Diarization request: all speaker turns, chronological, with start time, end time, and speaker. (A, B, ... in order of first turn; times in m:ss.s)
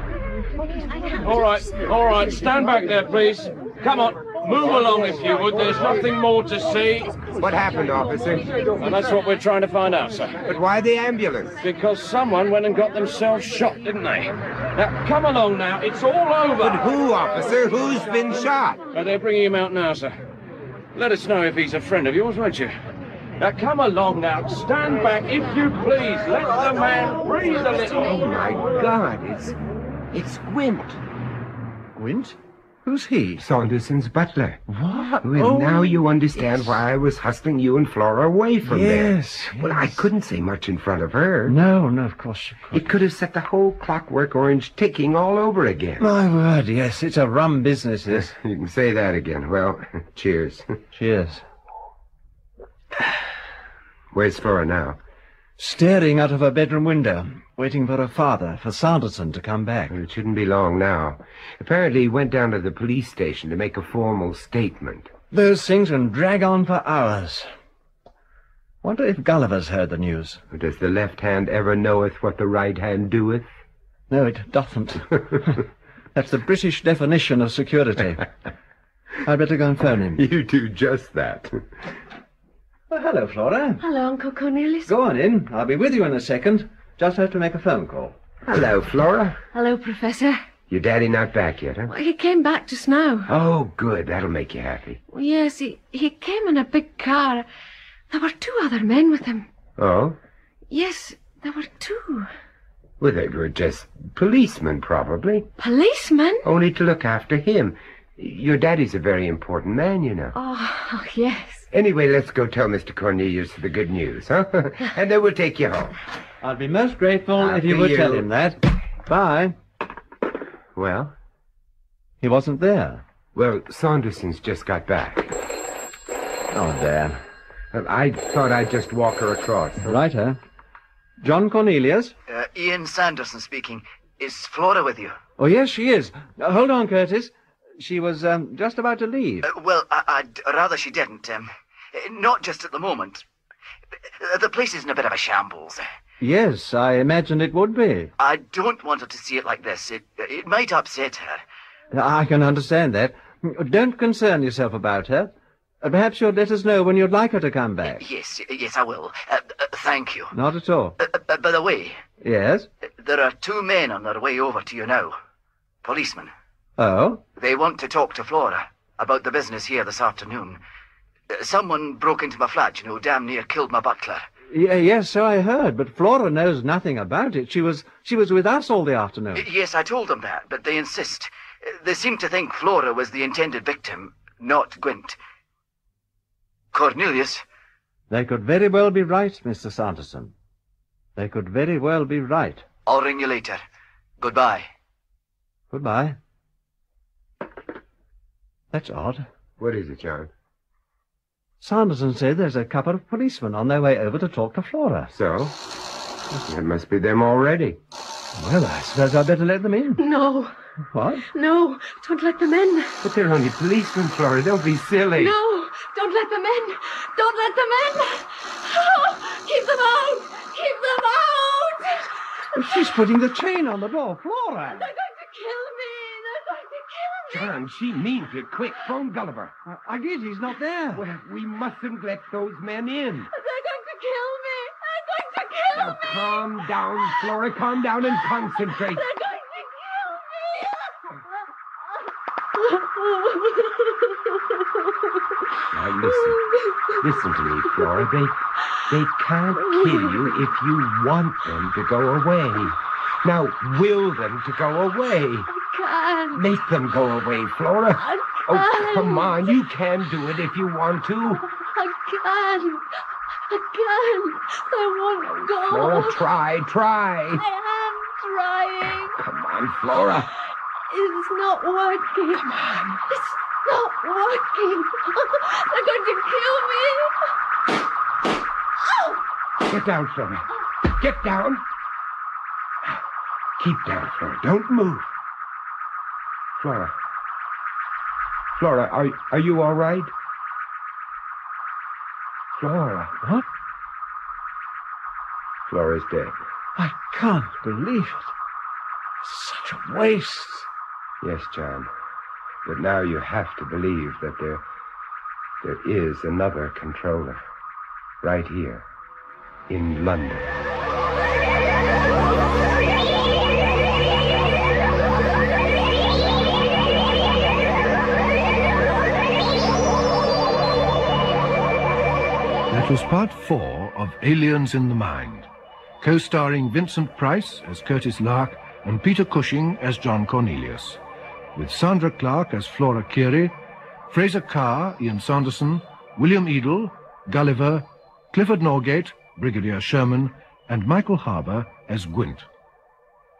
0:01.2-0:07.2 A
0:07.3-0:08.5 B
0:08.7-0:10.4 A
0:10.4-0:11.6 B
0:11.6-0:16.8 A
0:16.6-0:18.8 B
0:18.9-0:20.2 A
0:20.9-0:22.8 A
0:23.4-0:28.1 A
0:28.0-0:29.6 B
0:30.1-0:31.0 B
0:32.0-0:33.4 C
0:33.4-0:34.6 B
0:34.7-0:36.0 C
0:35.2-0:41.6 B
0:38.6-0:40.0 C
0:41.5-0:42.9 C
0:42.7-0:46.1 B
0:46.0-0:48.4 C
0:48.2-0:50.8 B
0:51.0-0:51.4 C
0:54.1-0:55.0 B
0:55.6-1:00.0 C
0:59.9-1:05.1 B
1:05.3-1:07.5 C
1:08.8-1:10.4 C
1:10.5-1:13.4 B
1:14.1-1:18.3 C
1:19.2-1:20.2 C
1:20.2-1:21.7 B
1:22.9-1:23.8 C
1:23.8-1:24.9 D
1:24.9-1:28.2 C
1:28.5-1:29.4 B
1:29.5-1:30.4 D
1:30.7-1:31.9 B
1:31.9-1:33.3 D
1:33.3-1:35.0 B
1:35.1-1:37.5 D
1:38.1-1:39.5 D
1:39.8-1:40.2 B
1:40.7-1:42.3 D
1:43.0-1:45.5 B
1:45.6-1:46.4 D
1:46.4-1:50.4 B
1:50.4-1:51.7 D
1:51.7-1:56.0 B
1:56.4-1:59.6 C
1:57.4-1:58.3 B
2:00.8-2:01.2 B
2:02.2-2:03.0 C
2:03.3-2:05.3 B
2:06.5-2:07.2 C
2:07.7-2:10.0 B
2:09.8-2:10.4 C
2:11.2-2:12.2 C
2:12.3-2:15.2 E
2:15.4-2:19.5 C
2:19.5-2:23.2 E
2:24.2-2:25.8 E
2:26.2-2:28.1 C
2:28.2-2:31.4 E
2:31.9-2:38.0 C
2:38.0-2:40.3 E
2:40.3-2:41.0 C
2:41.0-2:42.0 E
2:42.2-2:42.7 C
2:42.9-2:45.2 E
2:45.8-2:46.3 E
2:46.8-2:47.2 C
2:47.4-2:50.6 E
2:51.3-2:54.3 E
2:54.5-2:59.5 C
2:59.4-3:05.2 E
3:06.7-3:07.4 E
3:08.1-3:10.3 C
3:11.2-3:12.7 C
3:12.9-3:13.6 E
3:14.2-3:14.7 E
3:15.7-3:16.2 C
3:18.7-3:19.3 C
3:19.6-3:20.3 B
3:21.6-3:25.1 C
3:25.1-3:25.6 B
3:26.4-3:27.8 B
3:28.4-3:30.0 C
3:30.0-3:30.6 D
3:30.9-3:31.3 C
3:31.3-3:33.0 D
3:33.0-3:35.4 B
3:35.2-3:42.9 D
3:42.5-3:44.9 C
3:44.7-3:47.6 D
3:47.3-3:49.5 B
3:49.7-3:51.1 C
3:51.0-3:53.3 B
3:53.3-3:57.3 D
3:55.7-3:59.1 B
3:58.2-4:01.2 D
4:02.5-4:05.2 D
4:05.7-4:06.4 B
4:06.0-4:07.1 D
4:07.0-4:15.5 B
4:07.7-4:08.0 D
4:09.6-4:10.5 D
4:15.5-4:16.4 D
4:16.3-4:21.4 B
4:18.0-4:19.6 D
4:21.4-4:26.2 D
4:25.6-4:27.4 B
4:27.4-4:29.2 D
4:29.2-4:30.3 B
4:30.9-4:37.3 D
4:38.8-4:39.2 D
4:39.6-4:41.6 B
4:43.6-4:45.1 B
4:46.6-4:47.0 B
4:48.6-4:50.1 B
4:52.5-4:53.2 B
4:55.7-4:56.4 B
4:56.8-4:58.3 C
4:59.2-5:00.7 C
5:01.2-5:01.9 B
5:02.6-5:04.6 B
5:05.6-5:07.4 B
5:08.2-5:08.9 B
5:09.7-5:10.6 B
5:22.7-5:25.5 F
5:26.0-5:31.0 F
5:31.6-5:33.6 F
5:34.1-5:42.5 F